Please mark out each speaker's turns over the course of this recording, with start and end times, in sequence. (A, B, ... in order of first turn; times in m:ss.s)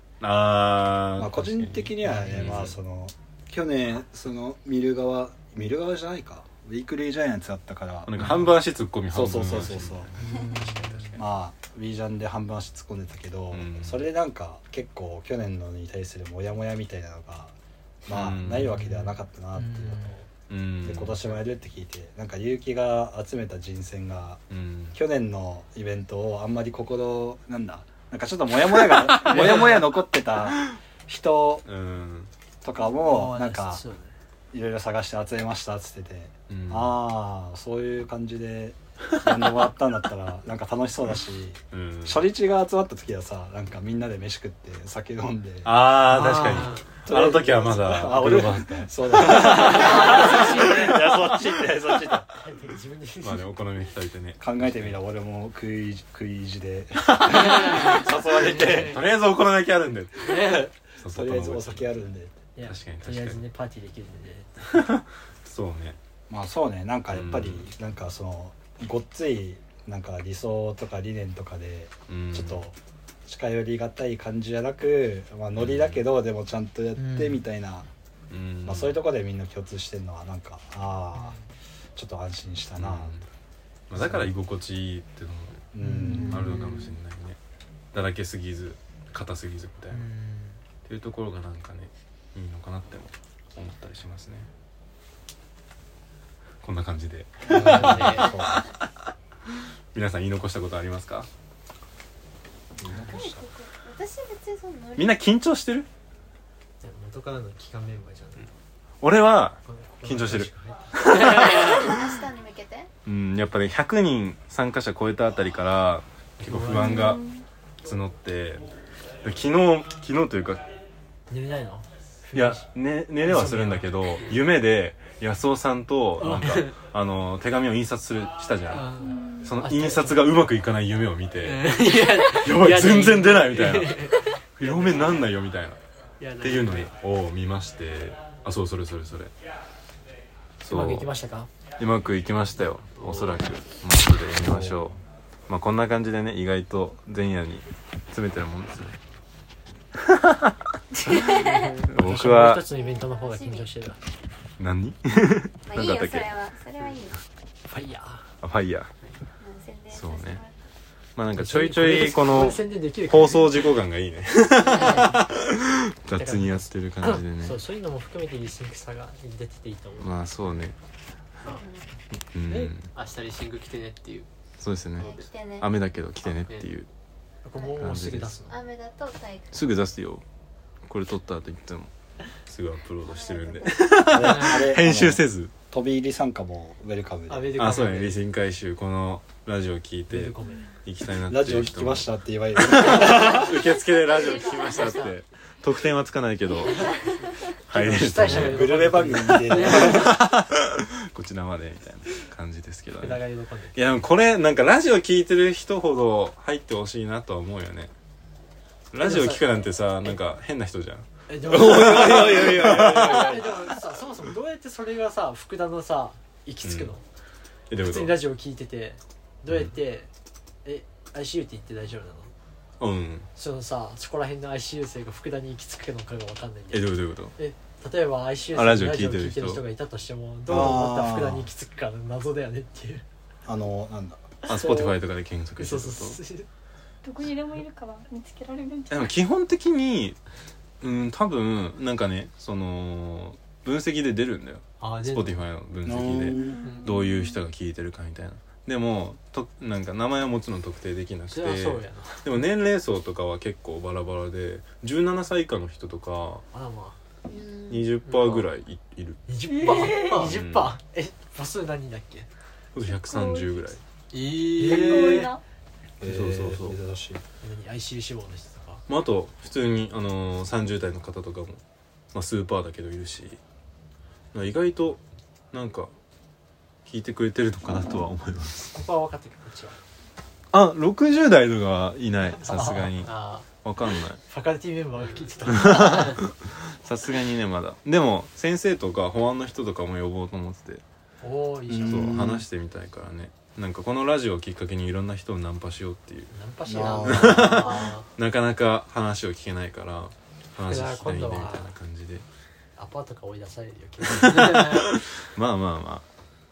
0:00.2-0:02.8 A
0:01.2-0:08.3 B
0:02.0-0:02.6 C
0:08.0-0:11.2 A
0:09.1-0:10.1 B
0:10.2-0:11.2 C
0:11.2-0:17.5 B
0:13.5-0:14.1 A
0:18.1-0:20.3 B
0:18.1-0:18.7 A
0:18.7-0:20.2 C
0:20.5-0:21.2 A
0:20.8-0:24.4 B
0:24.5-0:25.0 A
0:24.9-0:31.6 B
0:28.9-0:29.9 A
0:31.7-0:32.3 A
0:32.6-0:33.8 B
0:33.0-0:34.1 C
0:34.5-0:46.4 B
0:36.5-0:37.0 A
0:41.7-0:42.3 A
0:45.6-0:50.0 A
0:46.1-0:46.8 C
0:47.1-0:52.3 B
0:49.7-0:50.7 C
0:52.4-0:53.4 C
0:53.2-0:55.0 A
0:54.4-0:59.0 B
0:57.1-0:58.0 A
0:58.4-0:59.0 D
0:58.6-1:01.9 A
1:00.3-1:02.4 B
1:02.6-1:05.0 C
1:02.7-1:03.4 A
1:04.7-1:06.0 A
1:06.3-1:17.9 B
1:07.1-1:07.7 A
1:12.1-1:12.6 A
1:15.6-1:16.0 A
1:17.0-1:17.4 C
1:18.3-1:19.0 A
1:18.6-1:21.4 B
1:22.0-1:23.2 B
1:22.8-1:23.2 A
1:23.9-1:25.6 A
1:24.0-1:24.3 B
1:25.7-1:26.7 B
1:25.8-1:26.7 C
1:26.2-1:27.4 A
1:27.9-1:30.1 A
1:29.9-1:30.6 C
1:30.8-1:34.5 A
1:36.6-1:38.7 A
1:37.5-1:38.7 B
1:37.5-1:38.2 C
1:37.6-1:38.1 D
1:39.9-1:41.3 A
1:42.8-1:43.4 B
1:42.9-1:45.2 E
1:45.0-1:45.9 A
1:46.8-1:48.5 C
1:49.0-1:52.2 A
1:49.7-1:51.3 C
1:51.1-1:52.9 E
1:53.0-1:57.2 A
1:56.4-1:57.2 C
1:56.7-1:57.4 F
1:57.8-1:58.6 A
1:59.2-2:00.7 A
2:01.3-2:02.7 C
2:02.3-2:08.9 A
2:03.2-2:04.0 C
2:06.2-2:06.6 C
2:06.3-2:06.6 D
2:08.7-2:09.2 D
2:08.8-2:10.3 C
2:09.0-2:09.6 F
2:09.4-2:15.8 A
2:11.4-2:15.3 D
2:16.2-2:16.9 D
2:16.4-2:19.3 A
2:20.6-2:21.1 A
2:20.6-2:21.5 C
2:21.8-2:29.0 A
2:23.0-2:23.4 D
2:24.5-2:24.9 B
2:30.1-2:32.6 A
2:31.2-2:31.7 E
2:31.4-2:34.0 C
2:32.7-2:33.7 E
2:34.6-2:36.4 A
2:35.7-2:37.2 E
2:37.7-2:38.3 C
2:38.4-2:38.9 A
2:39.4-2:40.5 E
2:39.9-2:40.4 A
2:41.2-2:47.6 A
2:41.4-2:43.6 C
2:44.7-2:45.2 C
2:46.1-2:50.1 C
2:50.0-2:50.8 A
2:51.5-2:51.9 E
2:52.3-2:52.9 A
2:52.5-2:52.8 C
2:52.9-2:54.3 D
2:54.6-2:56.9 A
2:55.0-2:55.7 E
2:57.4-2:58.6 C
2:57.8-2:58.4 A
2:58.5-2:59.7 E
2:59.5-3:00.2 A
3:00.9-3:01.9 A
3:02.5-3:05.5 A
3:03.0-3:04.0 E
3:04.0-3:07.7 B
3:07.3-3:08.2 C
3:07.6-3:17.1 A
3:10.1-3:10.7 C
3:11.3-3:13.5 B
3:13.2-3:15.1 E
3:16.7-3:17.1 E
3:17.7-3:18.7 A
3:17.7-3:20.2 C
3:18.2-3:20.2 B
3:19.5-3:27.9 A
3:23.0-3:23.8 C
3:28.9-3:33.7 A
3:29.0-3:29.4 C
3:31.3-3:37.0 C
3:36.6-3:36.9 A
3:37.7-3:38.2 A
3:37.8-3:40.1 C
3:40.6-3:42.3 C
3:42.8-3:43.3 A
3:43.4-3:53.0 C
3:46.7-3:47.4 A
3:48.5-3:49.6 A
3:50.5-3:51.5 B
3:50.5-3:50.9 A
3:53.5-3:54.5 B
3:54.5-3:54.9 C
3:54.5-3:56.2 A
3:55.6-3:56.5 C
3:57.0-3:59.2 F
3:58.9-4:00.2 A
4:00.8-4:16.4 A
4:04.8-4:05.4 C
4:05.9-4:06.7 B
4:06.4-4:07.4 F
4:11.3-4:12.3 C
4:16.5-4:17.0 C
4:17.3-4:17.9 E
4:17.7-4:19.2 A
4:19.3-4:22.3 C
4:19.5-4:20.3 F
4:19.9-4:20.3 D
4:20.2-4:20.8 A
4:22.7-4:23.8 A
4:22.8-4:23.6 F
4:24.1-4:25.4 D
4:24.6-4:25.3 C
4:24.6-4:25.4 F
4:26.0-4:27.2 B
4:26.0-4:26.8 A
4:27.4-4:28.8 C
4:28.9-4:31.6 A
4:32.1-4:33.4 A
4:34.3-4:35.0 A
4:35.5-4:35.9 A
4:36.9-4:38.8 A
4:38.7-4:39.8 C
4:40.5-4:43.1 A
4:42.4-4:43.5 C
4:43.6-4:44.2 A
4:44.2-4:46.3 C
4:45.5-4:50.8 A
4:51.2-4:52.2 C
4:51.7-4:52.4 B
4:51.8-4:56.4 A
4:56.3-4:58.1 C
4:56.7-4:57.9 B
4:56.9-5:02.3 A
5:00.6-5:01.7 C
5:02.8-5:04.9 C
5:04.1-5:06.0 A